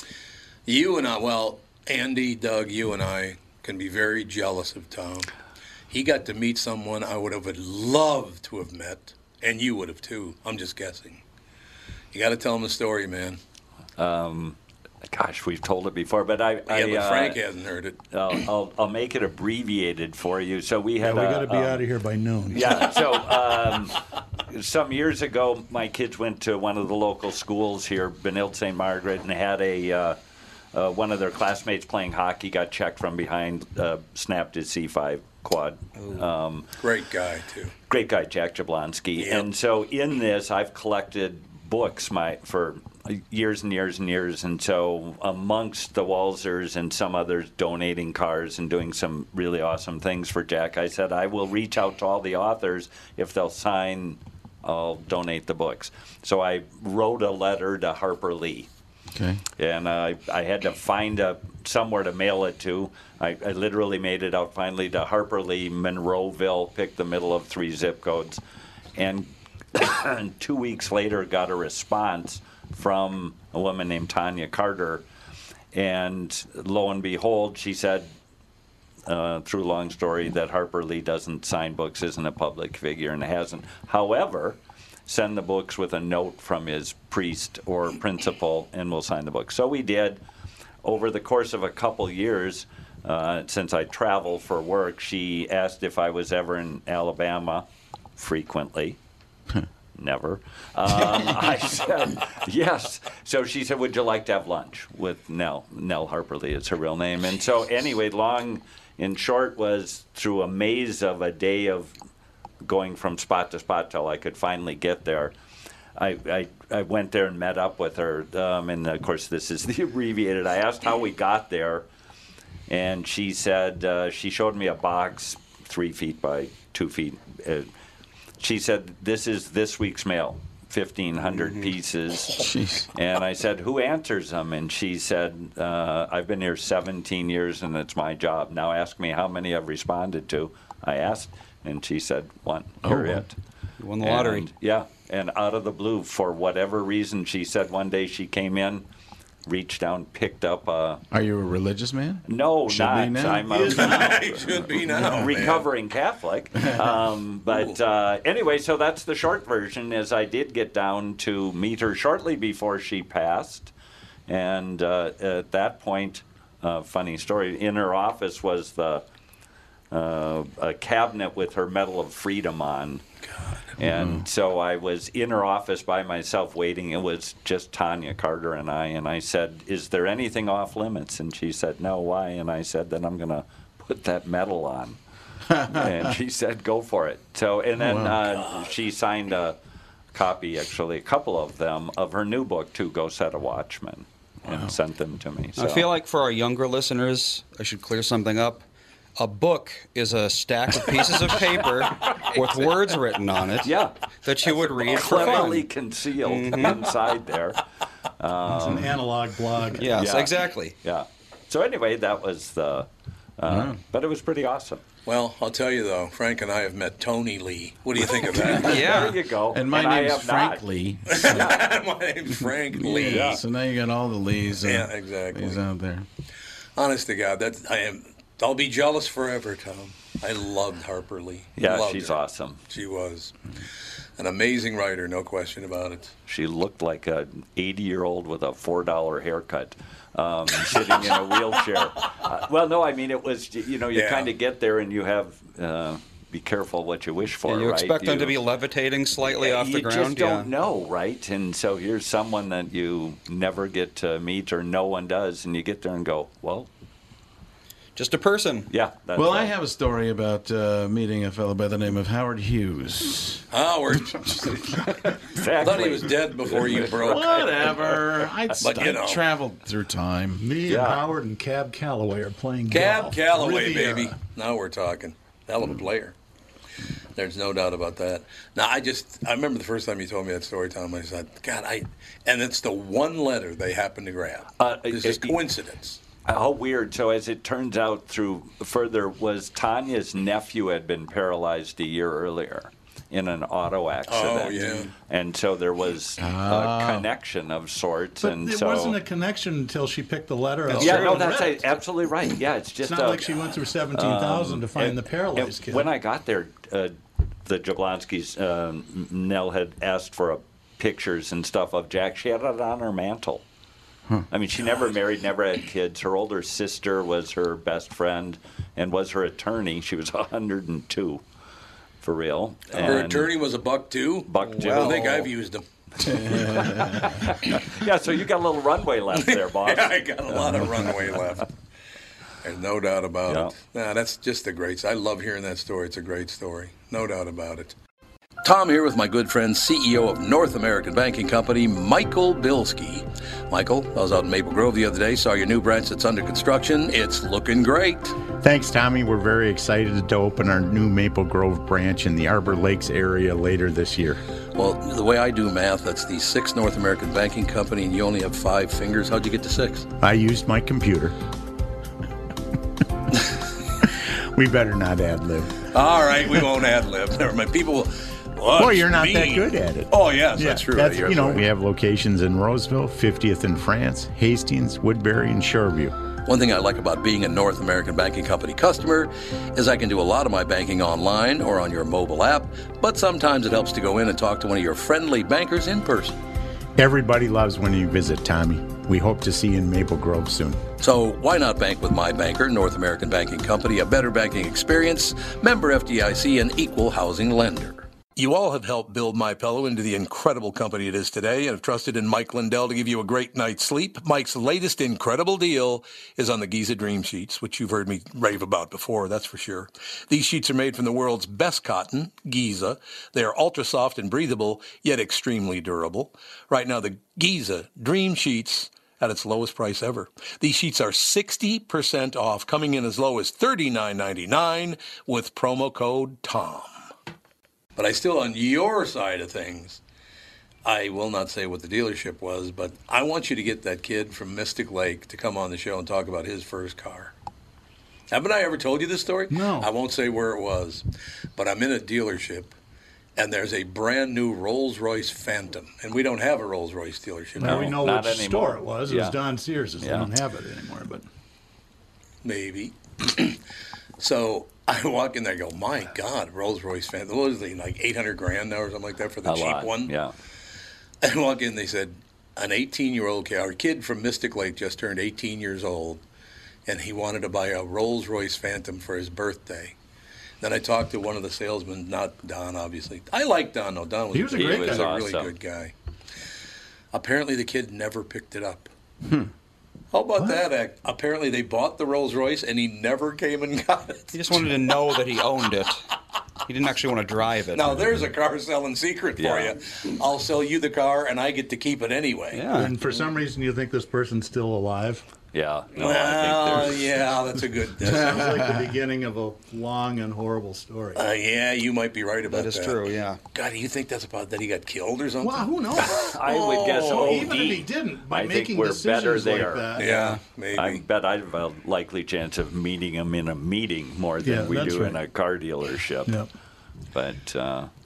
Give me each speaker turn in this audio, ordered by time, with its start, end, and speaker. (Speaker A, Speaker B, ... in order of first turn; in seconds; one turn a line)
Speaker A: 0.7-5.3
Speaker A: 5.9-11.2
Speaker A: 12.1-13.4
Speaker B: 14.0-14.6
Speaker B: 15.1-17.4
Speaker A: 16.7-18.0
Speaker B: 18.1-21.9
Speaker C: 21.0-23.0
Speaker B: 22.5-30.2
Speaker B: 30.7-36.7
Speaker D: 36.0-36.2
Speaker A: 36.8-37.7
Speaker B: 37.9-58.7
Speaker A: 39.2-39.5
Speaker E: 59.1-59.4
Speaker B: 59.6-68.4
Speaker B: 69.0-75.0
Speaker B: 75.7-78.1
Speaker B: 79.1-90.2
Speaker B: 90.8-97.7
Speaker B: 98.2-99.0
Speaker B: 100.0-111.9
Speaker E: 101.0-101.3
Speaker B: 112.6-115.3
Speaker B: 116.0-121.9
Speaker B: 122.7-127.7
Speaker B: 128.4-143.3
Speaker D: 131.3-131.7
Speaker E: 132.4-132.9
Speaker E: 142.8-143.2
Speaker D: 143.8-144.5
Speaker B: 144.0-148.8
Speaker B: 149.5-151.0
Speaker E: 151.1-153.7
Speaker B: 152.3-163.7
Speaker C: 153.5-154.3
Speaker A: 153.6-155.7
Speaker B: 164.3-169.0
Speaker B: 169.9-173.0
Speaker B: 173.8-185.0
Speaker E: 173.8-174.2
Speaker E: 185.5-186.2
Speaker B: 185.7-189.6
Speaker E: 187.8-188.2
Speaker B: 190.1-195.9
Speaker E: 194.5-194.7
Speaker D: 195.6-198.7
Speaker D: 199.2-205.7
Speaker B: 202.1-202.7
Speaker B: 203.6-203.9
Speaker B: 204.8-207.6
Speaker D: 206.2-206.9
Speaker B: 208.2-209.0
Speaker C: 208.5-210.0
Speaker D: 209.8-210.7
Speaker B: 209.9-212.9
Speaker B: 213.4-214.8
Speaker E: 213.5-213.8
Speaker A: 215.1-218.8
Speaker B: 218.3-220.6
Speaker D: 218.6-219.2
Speaker E: 219.5-221.5
Speaker A: 221.1-223.4
Speaker B: 221.2-221.6
Speaker E: 222.7-226.1
Speaker B: 223.0-223.4
Speaker A: 224.6-225.6
Speaker A: 226.8-233.3
Speaker B: 231.6-232.6
Speaker A: 234.2-236.1
Speaker B: 236.3-248.4
Speaker A: 243.9-244.3
Speaker D: 247.5-250.5
Speaker B: 249.2-256.7
Speaker D: 258.0-258.7
Speaker B: 258.7-259.5
Speaker E: 259.1-263.4
Speaker A: 263.5-264.5
Speaker E: 264.1-264.8
Speaker B: 264.7-268.1
Speaker A: 265.6-267.4
Speaker E: 266.9-270.5
Speaker A: 268.6-269.2
Speaker C: 270.4-274.1
Speaker B: 270.7-271.0
Speaker A: 272.7-276.1
Speaker A: 277.1-286.0
Speaker B: 284.6-285.4
Speaker B: 286.2-299.0
Speaker A: 294.1-294.9
Speaker E: 296.2-297.1
Speaker C: 298.2-301.6
Speaker B: 300.7-313.4
Speaker C: 302.8-305.9
Speaker B: 314.3-321.2
Speaker B: 322.0-323.3
Speaker A: 322.7-325.6
Speaker B: 324.3-325.3
Speaker E: 326.0-327.3
Speaker B: 326.3-330.1
Speaker A: 329.2-331.5
Speaker B: 330.6-330.9
Speaker A: 332.4-337.8
Speaker B: 333.3-333.5
Speaker A: 338.4-348.2
Speaker F: 348.4-354.2
Speaker A: 354.6-359.9
Speaker F: 360.0-361.1
Speaker F: 363.9-365.6
Speaker A: 365.7-371.4
Speaker F: 368.6-375.9
Speaker A: 376.2-386.2
Speaker F: 386.8-390.6
Speaker A: 390.8-426.8
Speaker A: 427.8-429.8
Speaker A: 430.6-437.1
Speaker A: 438.1-440.9
Speaker C: 439.3-439.7
Speaker A: 441.4-442.5
Speaker A: 443.2-447.8
Speaker C: 447.4-451.1
Speaker B: 447.4-449.2
Speaker B: 449.8-450.1
Speaker A: 452.2-453.4
Speaker A: 454.0-459.9
Speaker B: 459.2-460.1
Speaker A: 461.0-466.0
Speaker A: 466.7-469.8
Speaker A: 470.4-475.7
Speaker C: 474.1-474.9
Speaker B: 474.3-475.3
Speaker A: 476.9-478.7
Speaker E: 479.1-479.3
Speaker A: 479.9-484.5
Speaker D: 484.1-485.8
Speaker D: 486.5-487.9
Speaker A: 487.5-492.4
Speaker B: 489.2-489.6
Speaker D: 492.3-492.8
Speaker C: 492.5-495.1
Speaker B: 495.3-496.9
Speaker A: 495.8-498.2
Speaker C: 497.8-501.0
Speaker E: 497.9-498.6
Speaker A: 500.9-507.3
Speaker D: 502.3-503.2
Speaker C: 505.2-506.2
Speaker B: 506.0-509.7
Speaker C: 506.7-509.9
Speaker A: 509.8-510.8
Speaker D: 509.8-510.2
Speaker B: 510.6-516.2
Speaker C: 514.2-515.0
Speaker B: 516.9-517.7